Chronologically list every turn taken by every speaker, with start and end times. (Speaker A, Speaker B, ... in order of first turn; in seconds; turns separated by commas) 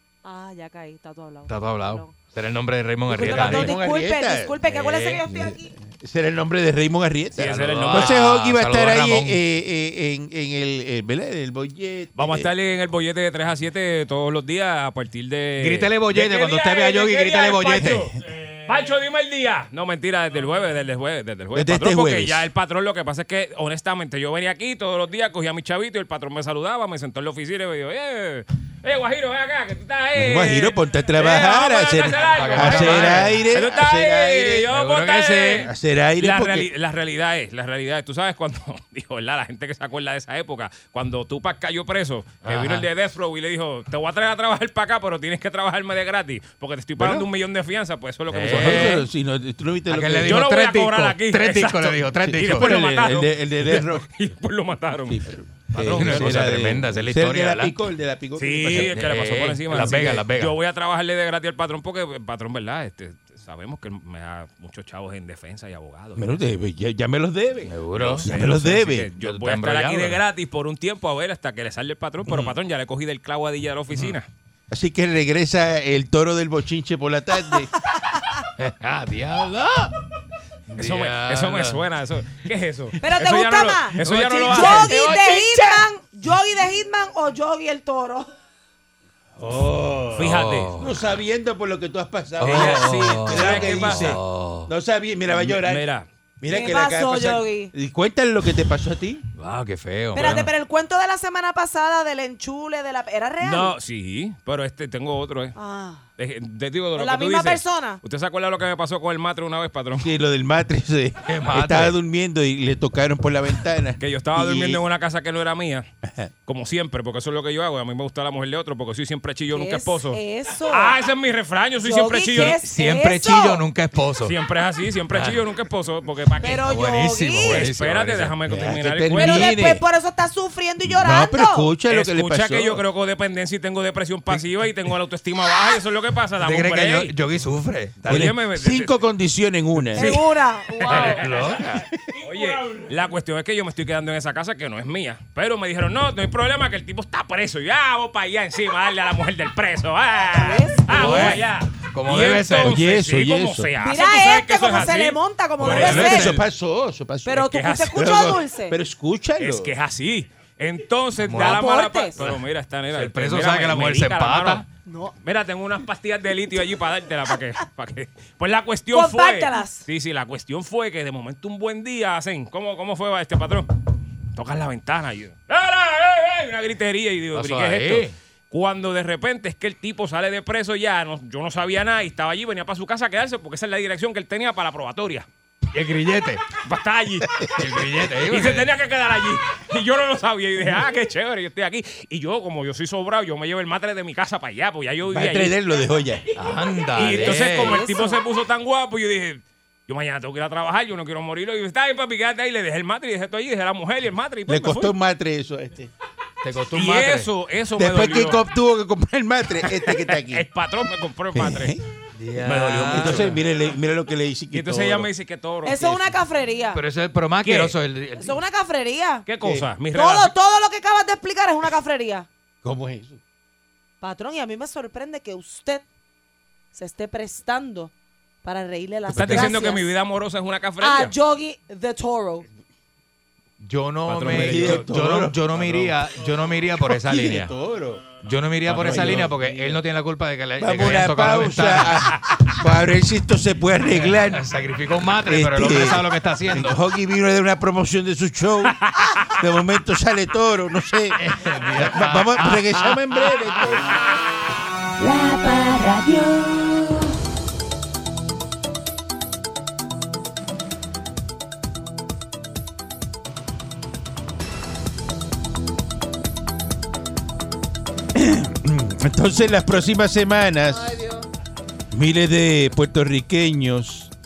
Speaker A: 0.2-2.1, Speaker B: 1.5-3.7, Speaker A: 3.1-5.7, Speaker C: 3.2-4.6, Speaker B: 4.7-5.5, Speaker C: 5.8-12.5, Speaker D: 7.4-8.2, Speaker B: 7.4-9.4, Speaker D: 12.2-18.1, Speaker B: 15.6-18.0, Speaker C: 17.8-18.1, Speaker D: 18.7-49.0, Speaker C: 21.5-22.5, Speaker C: 30.1-34.7, Speaker B: 32.2-33.5, Speaker B: 34.7-35.7, Speaker C: 35.6-36.7, Speaker B: 42.4-42.9, Speaker C: 47.0-47.3, Speaker B: 48.3-49.1, Speaker C: 48.5-50.5, Speaker B: 49.9-52.7, Speaker D: 50.2-55.2, Speaker C: 52.3-54.1, Speaker C: 55.1-59.1, Speaker B: 55.7-57.8, Speaker D: 55.8-56.5, Speaker D: 58.4-66.3, Speaker B: 58.7-60.5, Speaker C: 59.7-60.2, Speaker C: 66.2-69.1, Speaker B: 67.7-68.5, Speaker D: 68.0-74.3, Speaker B: 69.2-70.2, Speaker C: 72.2-72.6, Speaker C: 74.7-77.7, Speaker B: 78.6-79.9, Speaker D: 80.7-85.4, Speaker B: 80.7-81.8, Speaker A: 83.0-84.0, Speaker C: 84.0-85.1, Speaker A: 84.5-88.3, Speaker B: 84.9-85.2, Speaker C: 89.4-95.9, Speaker D: 90.2-90.7, Speaker B: 90.2-90.9, Speaker B: 92.4-94.7, Speaker D: 92.4-94.2, Speaker D: 95.3-96.1, Speaker C: 96.4-99.2, Speaker A: 96.5-97.7, Speaker B: 99.4-100.5, Speaker A: 100.1-103.7, Speaker D: 103.4-105.5, Speaker A: 105.6-106.0, Speaker D: 106.2-110.1, Speaker A: 107.0-108.0, Speaker C: 110.0-114.8, Speaker B: 111.3-111.9, Speaker D: 114.0-115.9, Speaker C: 116.0-116.3, Speaker D: 116.5-122.6, Speaker A: 119.5-121.0, Speaker A: 121.8-123.6, Speaker B: 122.3-124.3, Speaker D: 124.2-126.7, Speaker B: 125.1-125.4, Speaker A: 126.4-127.7, Speaker B: 126.4-128.3, Speaker D: 127.5-129.5, Speaker C: 128.5-129.8, Speaker A: 129.2-131.7, Speaker C: 130.8-132.8, Speaker D: 131.9-137.1, Speaker B: 136.4-138.3, Speaker D: 138.1-138.9, Speaker C: 138.1-140.2, Speaker D: 139.9-140.3, Speaker A: 139.9-141.2, Speaker D: 140.8-155.8, Speaker B: 140.9-141.8, Speaker A: 150.3-151.3, Speaker B: 150.9-152.7, Speaker C: 152.6-153.7, Speaker A: 153.8-156.3, Speaker B: 155.6-156.4, Speaker C: 155.6-159.7, Speaker A: 157.2-158.8, Speaker D: 157.5-158.0, Speaker D: 159.4-164.6, Speaker B: 161.2-161.7, Speaker A: 161.4-162.2, Speaker B: 162.2-164.7, Speaker A: 164.9-165.1, Speaker D: 165.2-173.7, Speaker A: 168.9-169.9, Speaker D: 174.3-185.3, Speaker B: 177.3-178.1, Speaker B: 185.7-186.4, Speaker D: 186.6-187.5, Speaker B: 187.6-188.7, Speaker D: 188.1-195.6, Speaker C: 195.1-196.3, Speaker B: 196.4-197.8, Speaker D: 196.9-204.9, Speaker A: 197.5-198.2, Speaker C: 204.5-205.9, Speaker B: 206.4-207.3, Speaker D: 206.7-208.4, Speaker C: 207.8-210.4, Speaker D: 209.6-211.8, Speaker C: 211.3-211.8, Speaker B: 212.2-213.4, Speaker D: 212.4-213.4, Speaker C: 212.8-215.1, Speaker D: 214.5-216.1, Speaker A: 215.7-216.8, Speaker B: 216.7-218.4, Speaker D: 217.4-217.8, Speaker A: 218.2-219.2, Speaker D: 219.3-220.3, Speaker A: 219.9-222.3, Speaker C: 222.6-223.2, Speaker A: 224.0-225.8, Speaker A: 226.8-227.9, Speaker A: 228.4-229.8, Speaker C: 229.2-229.5, Speaker D: 229.2-231.1, Speaker A: 230.8-232.4, Speaker B: 233.6-237.5, Speaker D: 234.1-234.9, Speaker C: 234.3-235.9, Speaker C: 236.8-239.8, Speaker B: 238.2-242.2, Speaker D: 238.9-239.2, Speaker C: 240.6-244.5, Speaker B: 243.9-246.8, Speaker C: 245.2-248.8, Speaker C: 249.3-254.0, Speaker B: 251.2-253.0, Speaker E: 255.0-257.1, Speaker C: 268.1-270.9, Speaker A: 270.8-271.2, Speaker C: 271.9-274.1